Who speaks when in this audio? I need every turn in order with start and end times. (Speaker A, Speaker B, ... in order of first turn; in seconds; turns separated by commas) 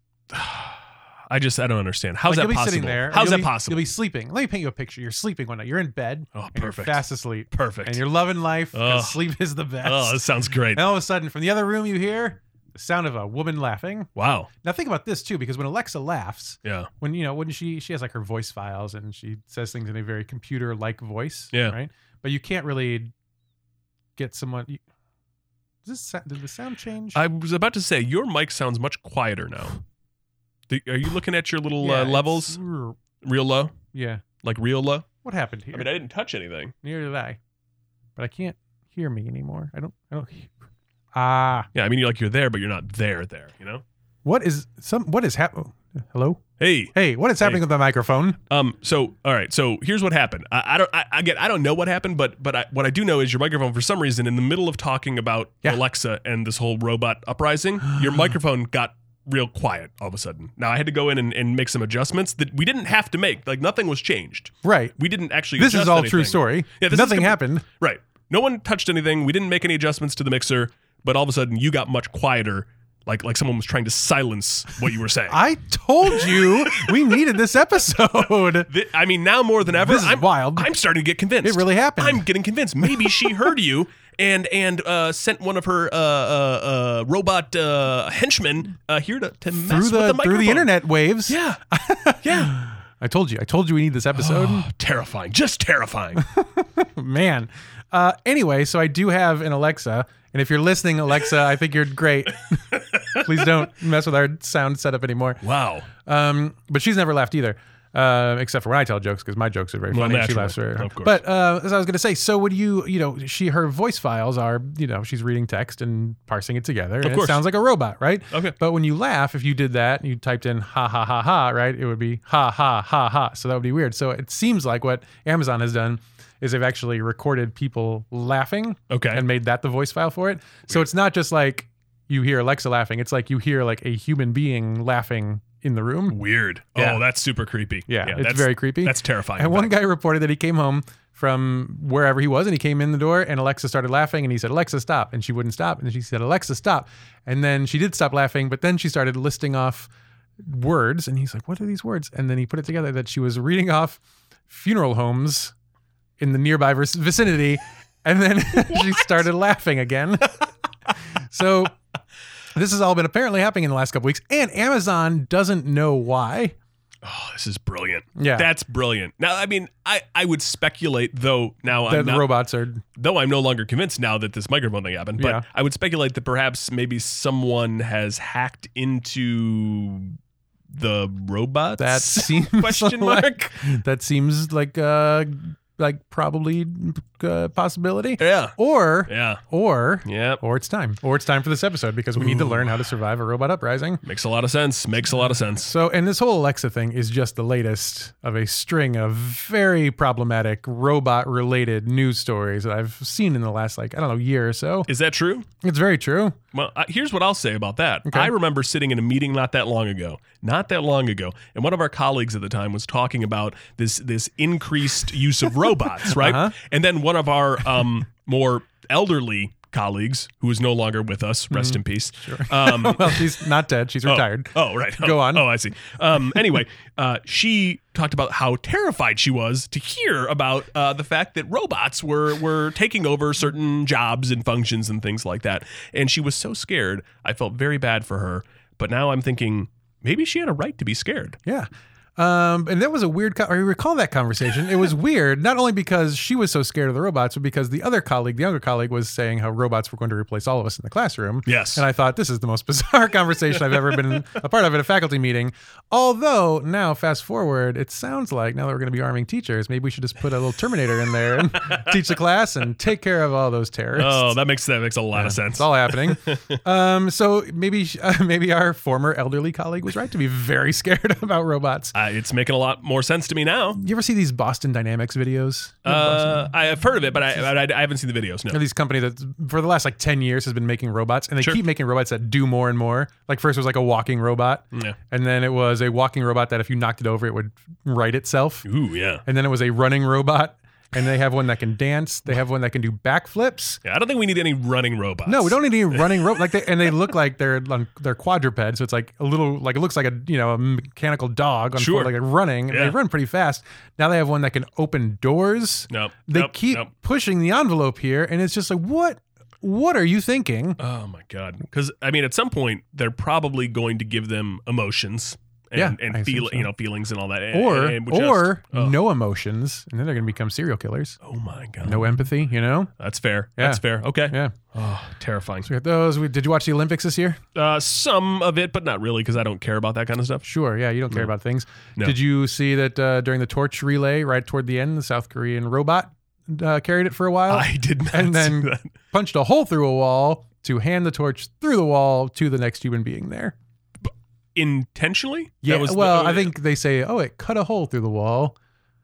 Speaker A: 0.3-3.8, Speaker B: 2.3-10.2, Speaker A: 6.3-8.0, Speaker A: 8.7-9.2, Speaker A: 9.8-10.8, Speaker B: 10.8-14.1, Speaker A: 14.2-14.5, Speaker B: 14.6-23.1, Speaker A: 16.6-16.9, Speaker B: 24.2-24.8, Speaker B: 25.8-27.2, Speaker A: 27.1-29.8, Speaker A: 30.7-32.6, Speaker B: 31.8-33.0, Speaker A: 33.2-33.8, Speaker B: 33.9-34.2, Speaker A: 34.4-35.1, Speaker B: 35.2-35.9, Speaker A: 35.7-36.8, Speaker B: 36.8-37.4, Speaker B: 38.2-40.5, Speaker B: 41.1-41.7, Speaker A: 41.7-43.8, Speaker B: 44.2-46.4, Speaker A: 46.6-47.6, Speaker B: 46.9-48.4, Speaker A: 48.5-75.4, Speaker B: 64.6-65.0, Speaker B: 65.6-67.7, Speaker B: 75.3-78.7, Speaker A: 76.2-76.9, Speaker A: 78.7-90.7, Speaker B: 79.7-80.7, Speaker B: 81.4-82.3, Speaker B: 82.8-83.5, Speaker B: 89.7-94.7, Speaker A: 91.3-91.6, Speaker A: 92.2-92.6, Speaker A: 94.2-96.3, Speaker B: 96.2-105.4, Speaker A: 102.7-103.3, Speaker A: 105.4-105.9, Speaker B: 106.0-136.2, Speaker A: 109.9-111.2, Speaker A: 117.0-117.4, Speaker A: 128.9-129.2, Speaker A: 136.1-139.7, Speaker B: 136.8-137.0, Speaker B: 137.9-155.5, Speaker B: 156.2-161.8, Speaker B: 162.5-166.6, Speaker A: 167.0-172.3, Speaker B: 168.2-168.5, Speaker B: 171.9-172.8, Speaker A: 173.0-180.2, Speaker B: 175.2-175.4, Speaker A: 180.7-183.6, Speaker B: 181.8-194.0, Speaker A: 188.2-188.6, Speaker A: 189.1-189.4, Speaker A: 190.1-190.4, Speaker A: 192.2-192.6, Speaker A: 194.0-195.7, Speaker B: 195.6-204.9, Speaker A: 204.9-205.5, Speaker B: 205.6-206.4, Speaker A: 206.5-223.4, Speaker B: 216.1-216.6, Speaker B: 221.5-225.5, Speaker A: 224.1-241.4, Speaker B: 241.5-264.4, Speaker A: 251.5-251.8, Speaker A: 263.9-266.6, Speaker B: 265.1-271.9, Speaker A: 271.9-273.8, Speaker B: 273.8-276.5, Speaker A: 275.9-278.6, Speaker B: 278.5-288.7, Speaker A: 288.7-289.2, Speaker B: 289.2-293.8, Speaker A: 293.8-296.0, Speaker B: 295.3-310.8, Speaker A: 301.8-302.1, Speaker A: 302.7-303.0, Speaker A: 305.9-306.9, Speaker A: 310.8-319.0, Speaker B: 315.8-316.7, Speaker B: 317.5-321.2, Speaker A: 321.2-322.3, Speaker B: 321.8-322.9, Speaker A: 323.0-325.7, Speaker B: 323.6-324.5, Speaker B: 325.6-327.4, Speaker A: 327.6-330.5, Speaker B: 330.4-343.6, Speaker A: 337.5-338.9, Speaker A: 344.6-346.5, Speaker B: 345.6-348.6